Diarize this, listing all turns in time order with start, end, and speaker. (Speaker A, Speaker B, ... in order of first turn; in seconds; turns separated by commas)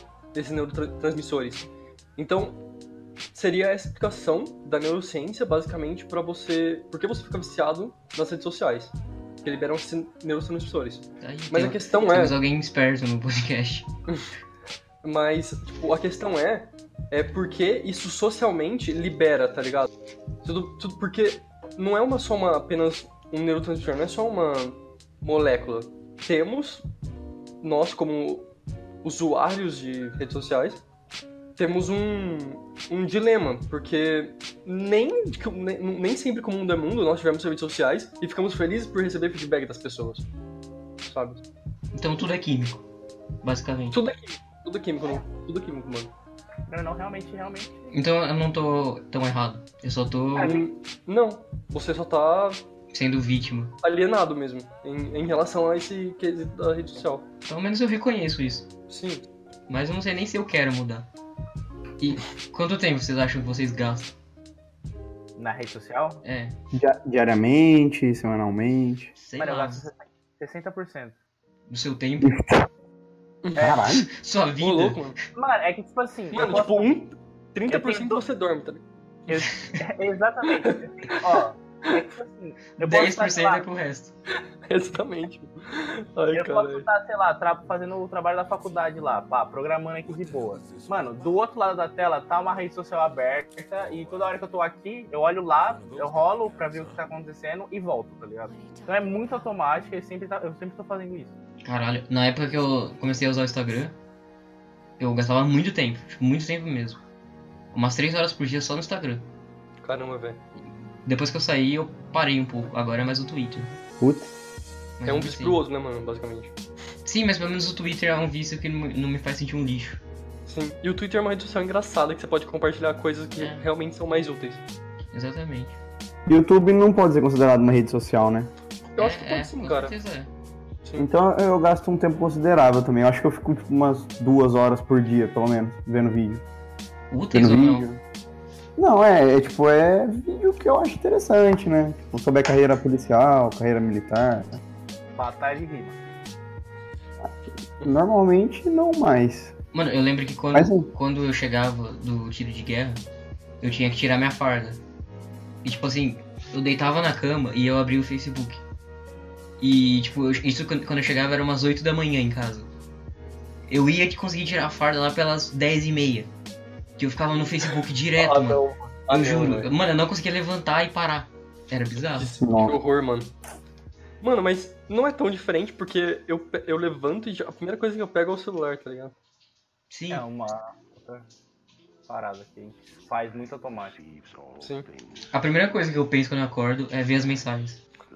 Speaker A: 0.3-2.6, Speaker A: 3.3-12.4, Speaker B: 11.2-13.9, Speaker A: 15.0-19.9, Speaker A: 20.4-26.9, Speaker A: 27.6-28.5, Speaker A: 29.0-30.8, Speaker A: 31.6-40.3, Speaker A: 41.0-41.4, Speaker B: 41.9-42.8, Speaker B: 43.4-44.0, Speaker A: 43.9-46.1, Speaker C: 46.7-47.8, Speaker B: 47.9-50.6, Speaker C: 50.4-50.6, Speaker A: 50.4-52.6, Speaker B: 52.9-53.7, Speaker A: 53.8-57.3, Speaker B: 57.5-58.7, Speaker A: 58.9-59.3, Speaker B: 59.7-61.1, Speaker B: 62.0-64.1, Speaker C: 65.4-66.2, Speaker B: 66.2-66.5, Speaker D: 66.7-69.1, Speaker B: 69.2-69.8, Speaker C: 69.4-71.2, Speaker B: 71.7-72.3, Speaker D: 72.2-72.7, Speaker A: 73.4-73.8, Speaker C: 73.6-73.8, Speaker D: 73.6-74.1, Speaker B: 73.8-75.1, Speaker A: 74.6-75.2, Speaker C: 75.3-76.9, Speaker A: 76.3-78.8, Speaker C: 77.7-78.2, Speaker C: 79.3-83.6, Speaker A: 80.6-81.4, Speaker B: 82.8-84.1, Speaker A: 84.6-86.9, Speaker C: 86.3-101.3, Speaker B: 101.6-104.0, Speaker B: 105.0-107.0, Speaker B: 107.7-109.2, Speaker A: 109.8-110.4, Speaker B: 111.0-113.7, Speaker D: 114.0-114.3, Speaker B: 115.0-115.6, Speaker A: 115.0-116.5, Speaker B: 117.0-120.0, Speaker A: 120.5-124.6, Speaker B: 123.4-123.6, Speaker B: 125.1-125.8, Speaker D: 126.3-128.5, Speaker A: 128.9-129.9, Speaker B: 129.0-130.3, Speaker D: 131.0-136.4, Speaker B: 137.1-137.9, Speaker D: 137.3-138.0, Speaker D: 138.8-144.6, Speaker C: 145.2-146.0, Speaker D: 147.8-149.5, Speaker B: 149.7-153.0, Speaker D: 150.5-150.9, Speaker B: 153.6-154.8, Speaker B: 155.6-158.6, Speaker B: 159.6-162.7, Speaker B: 163.7-166.3, Speaker B: 167.0-172.3, Speaker A: 168.2-169.7, Speaker A: 172.1-173.3, Speaker D: 172.3-172.8, Speaker A: 174.2-179.2, Speaker B: 179.9-180.2, Speaker C: 180.1-181.2, Speaker C: 182.1-184.0, Speaker A: 184.6-184.9, Speaker B: 185.3-187.8